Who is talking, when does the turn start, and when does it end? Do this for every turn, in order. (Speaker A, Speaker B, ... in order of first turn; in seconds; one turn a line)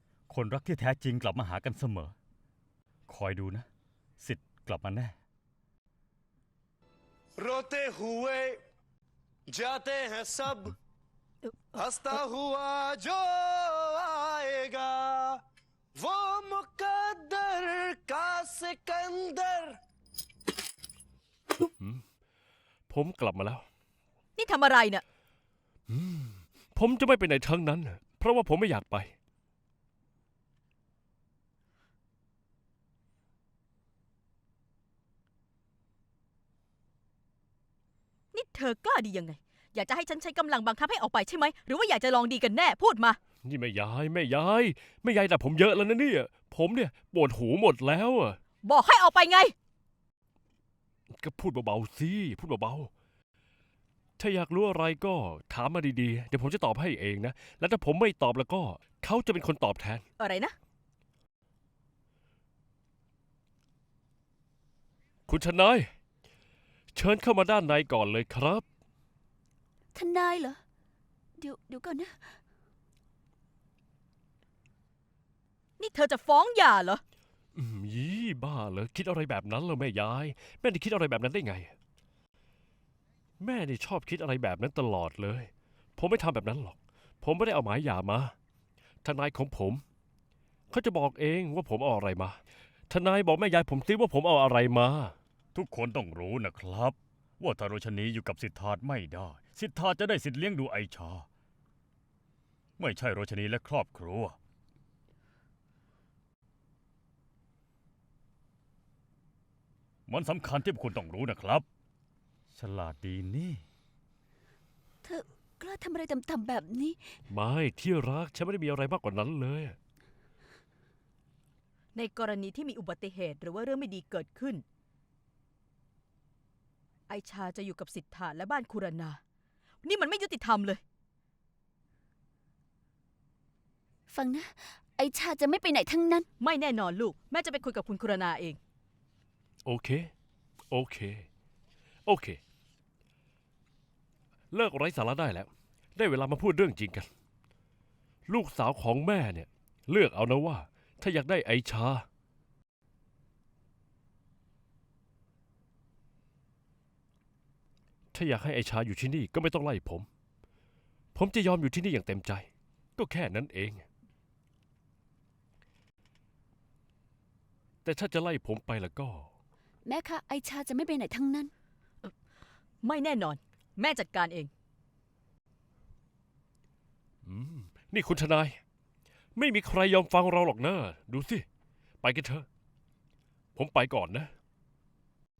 Speaker A: 0.3-2.1
Speaker A: 3.1-3.6
Speaker A: 4.2-5.2
Speaker B: 7.4-8.6
Speaker B: 9.5-10.7
Speaker B: 11.7-15.4
Speaker B: 15.9-19.8
Speaker C: 21.8-22.0
Speaker C: 22.9-23.6
Speaker D: 24.4-25.0
Speaker C: 25.9-29.1
Speaker D: 38.3-43.2
Speaker C: 43.4-48.4
Speaker D: 48.6-49.5
Speaker C: 51.1-52.9
Speaker C: 54.2-60.0
Speaker D: 60.2-60.5
Speaker C: 65.3-65.9
Speaker C: 66.9-68.6
Speaker E: 69.9-70.6
Speaker E: 71.4-72.4
Speaker D: 75.8-77.0
Speaker C: 77.5-81.7
Speaker C: 83.4-88.3
Speaker C: 89.0-89.8
Speaker C: 90.7-92.3
Speaker C: 92.9-95.1
Speaker A: 95.5-101.3
Speaker A: 102.8-104.4
Speaker A: 110.1-111.6
Speaker A: 112.5-113.6
Speaker E: 115.0-117.1
Speaker C: 117.3-119.8
Speaker D: 121.9-124.6
Speaker D: 127.1-129.2
Speaker D: 129.8-130.8
Speaker E: 134.1-136.3
Speaker D: 136.4-138.6
Speaker C: 139.6-140.1
Speaker C: 140.7-141.2
Speaker C: 142.0-142.4
Speaker C: 144.5-147.1
Speaker C: 148.3-152.1
Speaker C: 158.1-160.1
Speaker C: 161.1-163.8
Speaker C: 167.8-169.3
Speaker E: 169.8-171.5
Speaker D: 172.8-174.5
Speaker C: 177.2-178.6
Speaker C: 179.3-181.4
Speaker C: 182.0-182.4
Speaker C: 183.5-184.3